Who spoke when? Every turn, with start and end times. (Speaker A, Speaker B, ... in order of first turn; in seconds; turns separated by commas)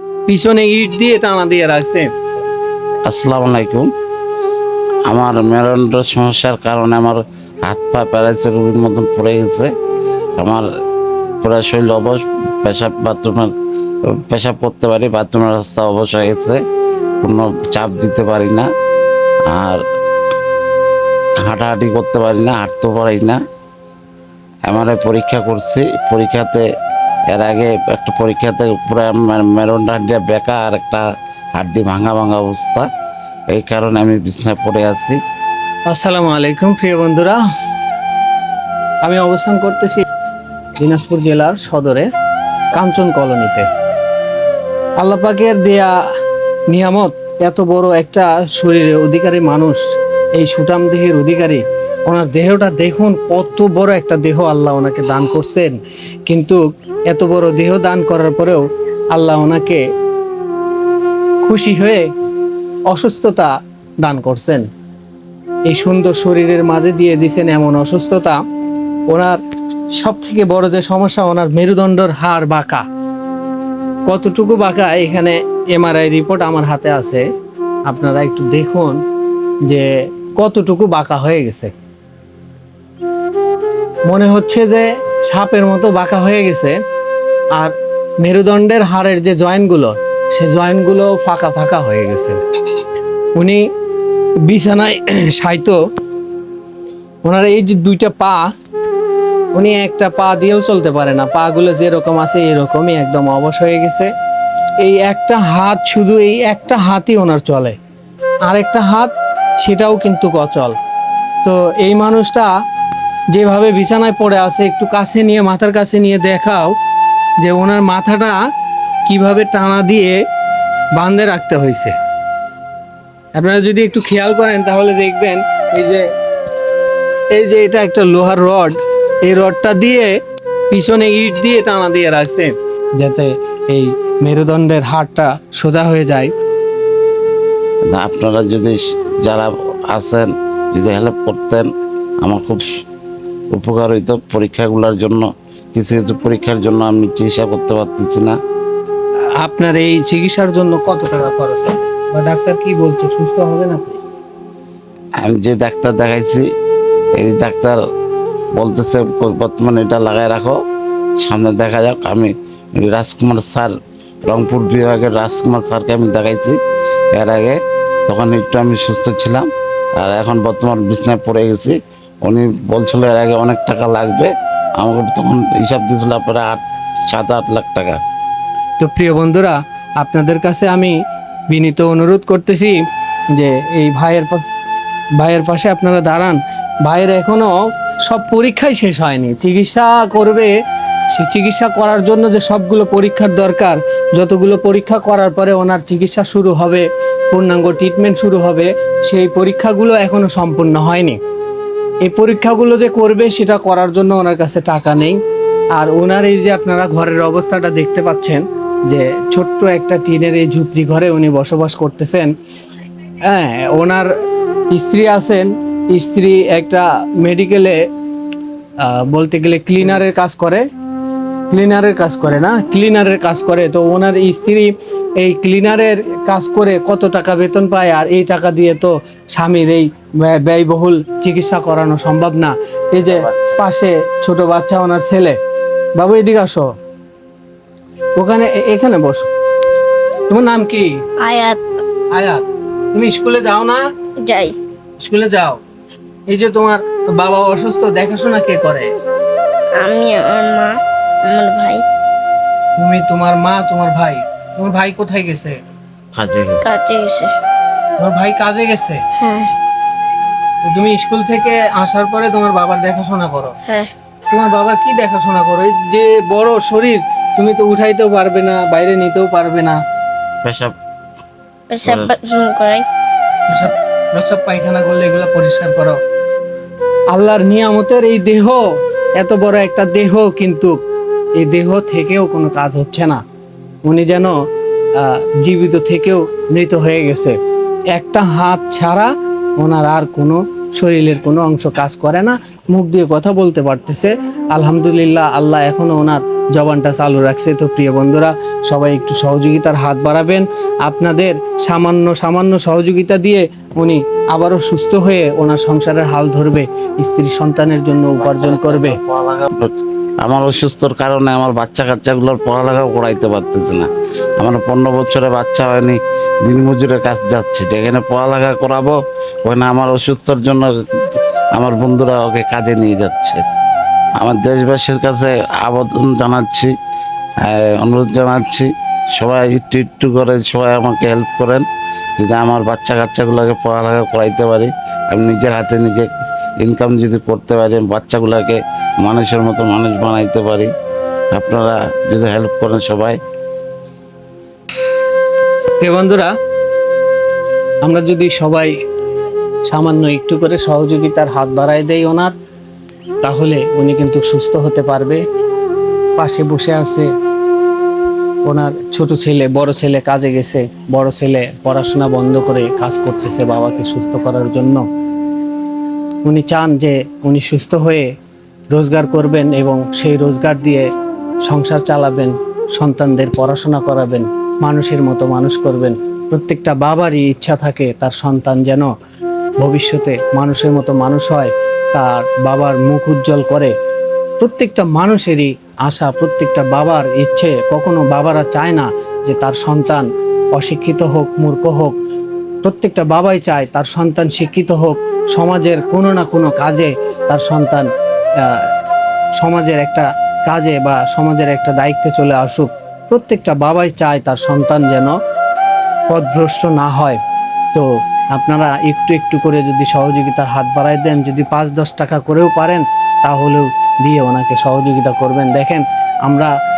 Speaker A: 0.3-2.1, Speaker B: 3.1-3.9, Speaker B: 5.1-9.7, Speaker B: 10.4-10.7, Speaker B: 11.4-13.5, Speaker B: 14.1-16.6, Speaker B: 17.2-18.7, Speaker B: 19.5-19.8, Speaker B: 21.4-23.4, Speaker B: 24.7-26.7, Speaker B: 27.3-31.0, Speaker B: 31.6-32.9, Speaker B: 33.5-35.2, Speaker A: 35.9-37.4, Speaker A: 39.0-40.0, Speaker A: 40.8-42.1, Speaker A: 42.7-43.7, Speaker A: 45.0-45.9, Speaker A: 46.7-49.8, Speaker A: 50.4-59.8, Speaker A: 61.4-62.1, Speaker A: 62.9-63.5, Speaker A: 64.0-64.7, Speaker A: 65.7-68.4, Speaker A: 69.1-69.4, Speaker A: 70.0-72.8, Speaker A: 74.1-77.2, Speaker A: 77.9-79.0, Speaker A: 79.7-81.7, Speaker A: 84.1-86.8, Speaker A: 87.6-92.4, Speaker A: 93.4-93.6, Speaker A: 94.5-95.8, Speaker A: 97.2-98.5, Speaker A: 99.5-104.1, Speaker A: 104.8-107.8, Speaker A: 108.5-110.8, Speaker A: 111.4-112.5, Speaker A: 113.3-116.8, Speaker A: 117.4-118.4, Speaker A: 119.1-120.2, Speaker A: 121.0-121.9, Speaker A: 123.4-126.0, Speaker A: 127.3-130.1, Speaker A: 130.7-136.3, Speaker B: 137.9-141.7, Speaker B: 142.2-142.7, Speaker B: 143.5-148.4, Speaker A: 149.4-154.0, Speaker B: 155.2-156.5, Speaker B: 157.2-157.8, Speaker B: 158.6-160.6, Speaker B: 161.2-163.7, Speaker B: 164.2-166.6, Speaker B: 167.2-167.6, Speaker B: 168.1-178.0, Speaker A: 178.8-181.0, Speaker A: 181.5-182.8, Speaker A: 183.3-184.4, Speaker A: 185.2-190.5, Speaker A: 191.1-201.2, Speaker A: 202.0-205.2, Speaker A: 205.8-212.3, Speaker A: 213.2-214.1, Speaker A: 214.7-217.8, Speaker A: 218.8-220.6, Speaker A: 221.5-235.4, Speaker B: 233.1-233.6, Speaker A: 236.0-236.7, Speaker A: 238.2-239.3, Speaker A: 240.3-240.9, Speaker C: 241.2-241.6, Speaker A: 242.1-243.8, Speaker C: 244.2-244.6, Speaker A: 245.0-245.6, Speaker A: 246.3-248.9, Speaker C: 249.8-251.8, Speaker A: 252.8-255.6, Speaker B: 256.1-256.7, Speaker C: 256.6-257.3, Speaker A: 258.0-259.0, Speaker C: 259.2-259.5, Speaker A: 260.6-263.6, Speaker C: 263.7-263.9, Speaker A: 264.3-269.8, Speaker B: 270.4-270.8, Speaker C: 271.7-272.9, Speaker B: 271.8-272.1, Speaker A: 273.5-276.0, Speaker A: 277.1-278.6, Speaker A: 279.2-280.8, Speaker A: 281.4-283.2, Speaker A: 283.9-284.4, Speaker A: 285.0-287.4, Speaker A: 287.9-309.0, Speaker B: 308.2-309.7, Speaker B: 310.2-323.4, Speaker B: 324.2-326.7, Speaker B: 327.4-331.7, Speaker B: 332.2-336.1, Speaker B: 336.6-340.7, Speaker B: 341.3-343.2, Speaker A: 345.8-346.3, Speaker A: 347.8-348.7, Speaker A: 349.7-352.3, Speaker A: 353.2-355.2, Speaker A: 356.2-357.1, Speaker A: 358.5-364.8, Speaker A: 366.2-368.1, Speaker A: 368.7-370.9, Speaker A: 371.5-378.9, Speaker A: 379.6-383.7, Speaker A: 384.4-392.0, Speaker A: 392.6-398.7, Speaker A: 399.4-405.1, Speaker A: 406.1-407.2, Speaker A: 407.7-416.5